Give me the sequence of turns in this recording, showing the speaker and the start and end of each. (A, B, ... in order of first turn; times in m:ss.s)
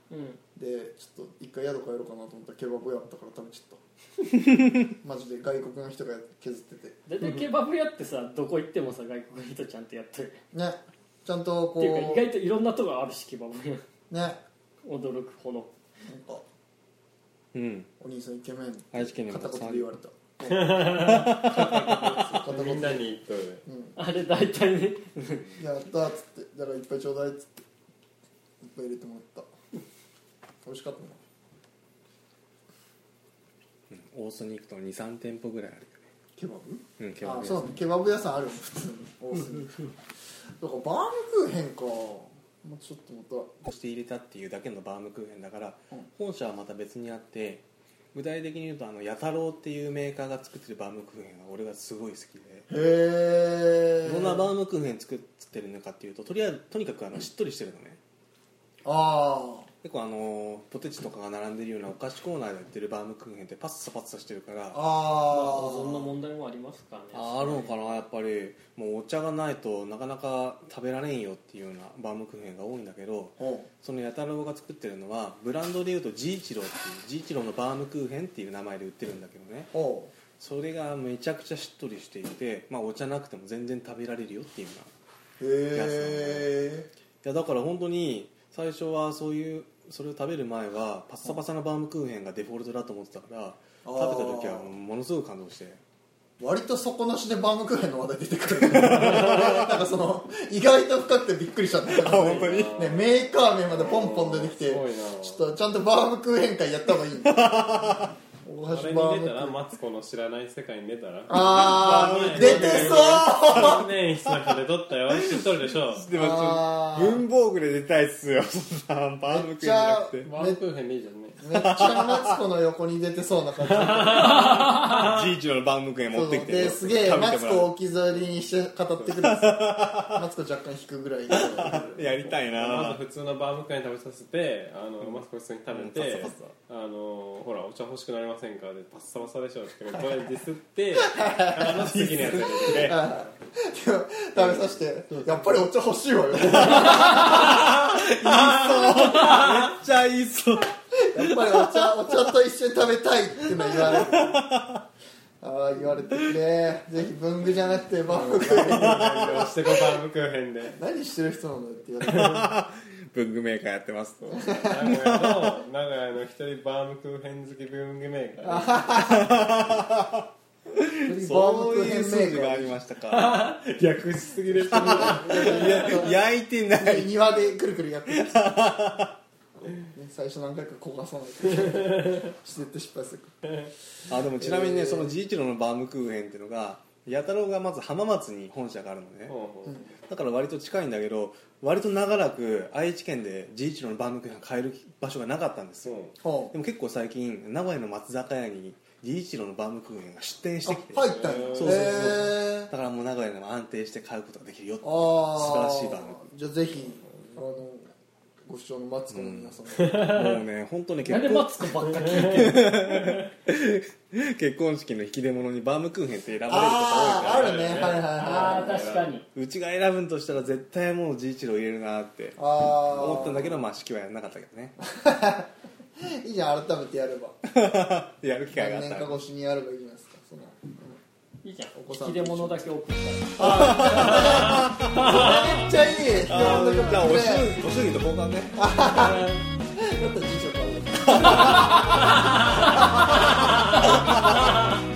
0:00.1-0:00.4 A
0:00.6-0:03.8 B
0:05.0-0:07.4 B
0:07.1-0:10.4 A
0:10.5-0:12.3 B
0:11.8-0:13.8 A
0:14.1-0:14.4 B
0:14.8-0:15.7 A
0:16.1-0:16.4 B
0:17.5-0:17.9 C
0:18.0-0:23.0 B
0:18.9-0:19.9 C
0:20.4-0:23.6 D
0:20.9-0:22.4 C
0:23.7-0:24.0 B
0:24.0-0:25.6 A
0:25.6-0:27.6 B
0:28.6-0:29.5 B
0:30.6-0:31.2 B
0:33.9-0:36.1 C
0:36.4-0:39.9 B
0:37.0-0:37.8 C
0:40.6-0:43.7 B
0:43.7-0:52.7 C
0:52.7-0:54.5 B
0:54.0-0:58.0 C
0:58.8-0:59.7 B
0:59.8-1:04.8 C
1:04.7-1:06.1 B
1:05.3-1:08.0 A
1:07.1-1:19.7 C
1:13.4-1:13.7 B
1:19.7-1:20.1 B
1:20.4-1:24.9 C
1:25.4-1:26.9 B
1:25.7-1:26.5 C
1:27.2-1:35.8 C
1:33.8-1:34.7 B
1:36.4-1:49.6 B
1:38.6-1:39.8 C
1:41.8-1:43.0 C
1:42.0-1:45.4 D
1:47.2-1:48.2 C
1:48.7-1:56.1 D
1:51.3-1:53.9 B
1:51.4-1:54.6 C
1:55.1-2:00.3 C
1:56.1-1:57.2 B
1:59.3-2:00.6 B
2:00.2-2:01.4 D
2:01.4-2:04.6 B
2:01.5-2:02.4 C
2:03.7-2:05.0 D
2:04.4-2:07.7 C
2:06.1-2:12.2 B
2:09.2-2:10.3 C
2:11.3-2:13.0 C
2:12.4-2:23.3 D
2:15.7-2:16.5 C
2:21.0-2:29.5 B
2:21.6-2:22.9 C
2:24.4-2:25.4 D
2:26.5-2:31.9 C
2:31.0-2:34.4 B
2:33.5-2:34.8 C
2:35.4-2:39.4 B
2:38.1-2:40.8 D
2:38.3-2:39.5 C
2:40.7-2:42.5 B
2:42.0-2:45.6 C
2:44.2-2:48.8 D
2:44.3-2:45.0 B
2:48.4-2:49.3 B
2:48.9-2:53.4 C
2:51.0-2:52.8 B
2:53.1-2:56.1 D
2:54.6-2:56.1 B
2:54.7-2:57.1 C
2:56.8-2:58.6 B
2:58.1-2:59.2 C
2:59.8-3:03.4 B
3:01.5-3:02.3 D
3:03.4-3:03.7 D
3:04.1-3:09.4 C
3:04.4-3:05.1 B
3:09.3-3:09.9 D
3:10.1-3:26.2 C
3:15.8-3:16.2 D
3:16.2-3:16.5 B
3:20.6-3:22.7 B
3:21.0-3:22.2 D
3:24.8-3:27.9 B
3:27.1-3:27.4 D
3:28.5-3:30.2 B
3:29.1-3:38.0 C
3:29.7-3:30.4 D
3:31.1-3:32.9 A
3:31.9-3:32.6 D
3:36.4-3:39.0 B
3:37.1-3:39.2 D
3:38.2-3:39.3 A
3:39.4-3:44.8 C
3:42.4-3:43.6 B
3:44.8-3:47.4 B
3:47.4-3:49.2 C
3:48.5-3:51.0 B
3:51.4-3:54.6 A
3:51.7-3:52.7 B
3:53.4-3:57.5 B
3:53.4-3:55.6 C
3:56.2-3:58.7 C
3:58.6-4:02.0 B
4:01.1-4:01.7 C
4:03.8-4:04.1 C